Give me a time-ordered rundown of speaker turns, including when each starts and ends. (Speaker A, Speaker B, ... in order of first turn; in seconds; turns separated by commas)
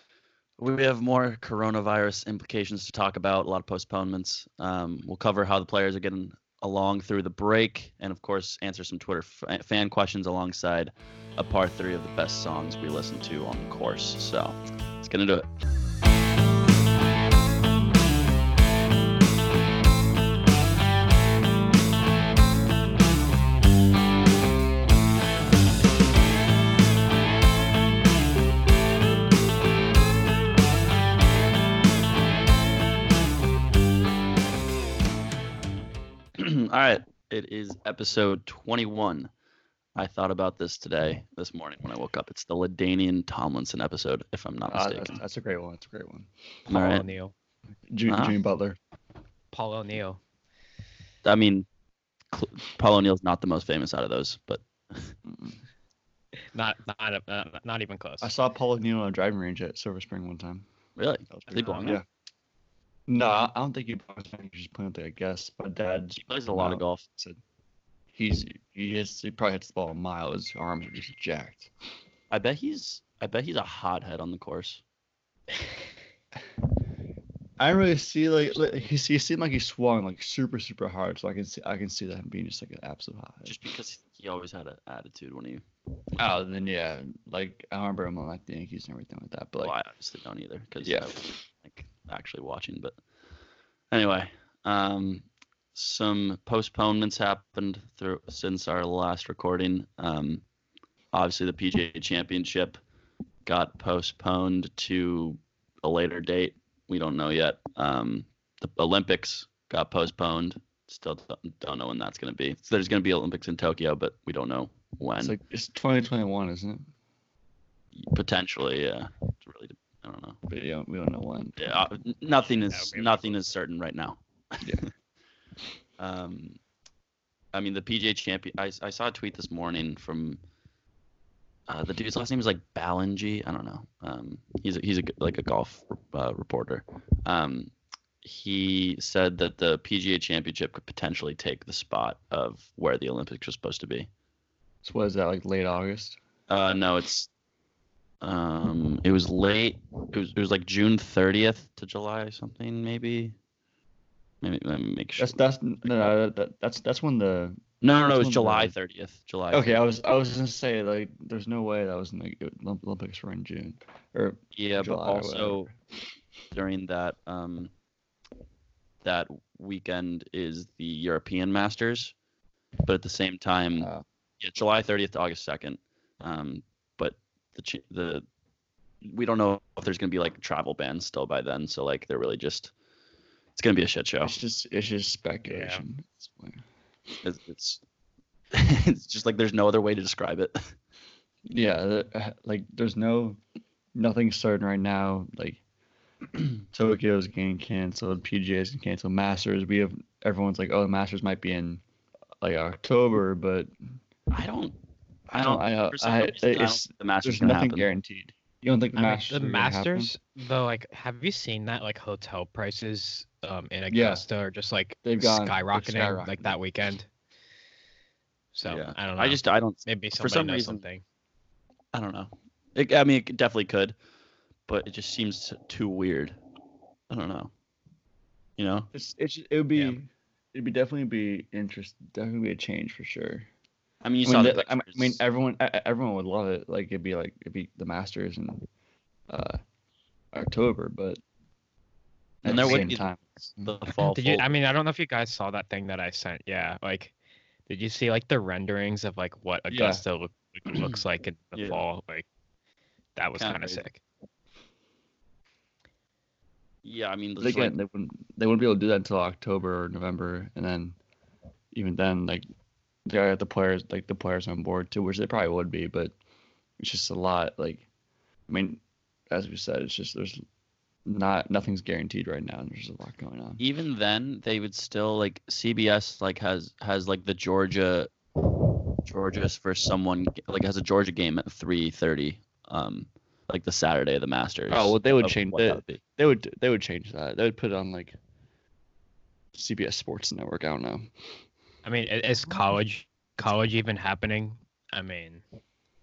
Speaker A: 0.6-15.4, Speaker A: 36.4-39.3, Speaker A: 40.0-45.2, Speaker B: 44.7-46.3, Speaker A: 46.7-47.0, Speaker C: 46.7-47.3, Speaker B: 47.9-48.8, Speaker A: 48.1-48.4, Speaker C: 49.5-50.2, Speaker A: 51.2-51.7, Speaker A: 52.3-55.1, Speaker B: 55.2-55.5, Speaker C: 56.5-58.3, Speaker B: 58.2-60.6, Speaker A: 61.0-62.0, Speaker B: 61.3-62.0, Speaker C: 61.5-61.9, Speaker B: 63.1-67.4, Speaker A: 66.1-67.0, Speaker B: 68.1-71.7, Speaker A: 72.3-74.8, Speaker B: 77.6-83.5, Speaker A: 83.4-85.6, Speaker B: 86.2-89.7, Speaker A: 89.6-93.0, Speaker B: 90.8-91.4, Speaker A: 93.9-100.4, Speaker A: 101.1-102.8, Speaker A: 103.4-115.4, Speaker B: 115.2-116.9, Speaker A: 117.9-120.4, Speaker B: 120.5-121.8, Speaker A: 121.6-124.7, Speaker C: 122.7-123.4, Speaker A: 126.0-126.6, Speaker A: 127.5-130.4, Speaker A: 131.7-137.7, Speaker A: 138.2-144.1, Speaker B: 144.8-146.2, Speaker A: 146.5-147.3, Speaker A: 148.2-153.3, Speaker A: 154.4-156.1, Speaker B: 155.2-158.7, Speaker A: 157.8-159.8, Speaker B: 159.5-165.8, Speaker A: 164.5-165.7, Speaker A: 166.5-167.7, Speaker A: 169.0-172.1, Speaker A: 172.8-173.9, Speaker B: 173.8-174.0, Speaker A: 174.4-178.2, Speaker A: 179.0-182.7, Speaker A: 183.6-184.3, Speaker B: 184.2-186.6, Speaker C: 185.5-185.8, Speaker A: 187.2-187.8, Speaker A: 188.5-190.8, Speaker B: 191.5-193.4, Speaker B: 193.9-195.6, Speaker B: 196.7-201.8, Speaker B: 202.4-203.7, Speaker A: 204.3-204.8, Speaker B: 205.3-210.1, Speaker A: 205.3-207.9, Speaker C: 208.9-217.1, Speaker B: 213.9-214.2, Speaker B: 215.0-216.5, Speaker C: 218.5-221.0, Speaker A: 218.6-220.8, Speaker A: 221.9-223.9, Speaker A: 224.7-226.4, Speaker A: 227.1-227.5, Speaker A: 228.6-228.9, Speaker B: 228.9-233.5, Speaker A: 234.0-235.2, Speaker B: 234.2-238.7, Speaker B: 239.3-239.6, Speaker B: 240.3-241.2, Speaker B: 242.4-243.7, Speaker A: 242.4-244.5, Speaker C: 242.6-242.9, Speaker C: 244.0-247.1, Speaker C: 247.7-252.2, Speaker B: 249.7-250.0, Speaker A: 251.5-251.8, Speaker C: 253.2-254.0, Speaker A: 253.3-253.8, Speaker A: 256.8-257.7, Speaker B: 257.4-261.0, Speaker B: 261.7-262.4, Speaker B: 263.1-266.1, Speaker B: 266.8-267.8, Speaker B: 268.5-270.4, Speaker B: 271.1-273.6, Speaker A: 273.6-278.1, Speaker A: 279.0-286.0, Speaker B: 284.7-288.1, Speaker B: 289.5-291.1, Speaker C: 291.8-295.4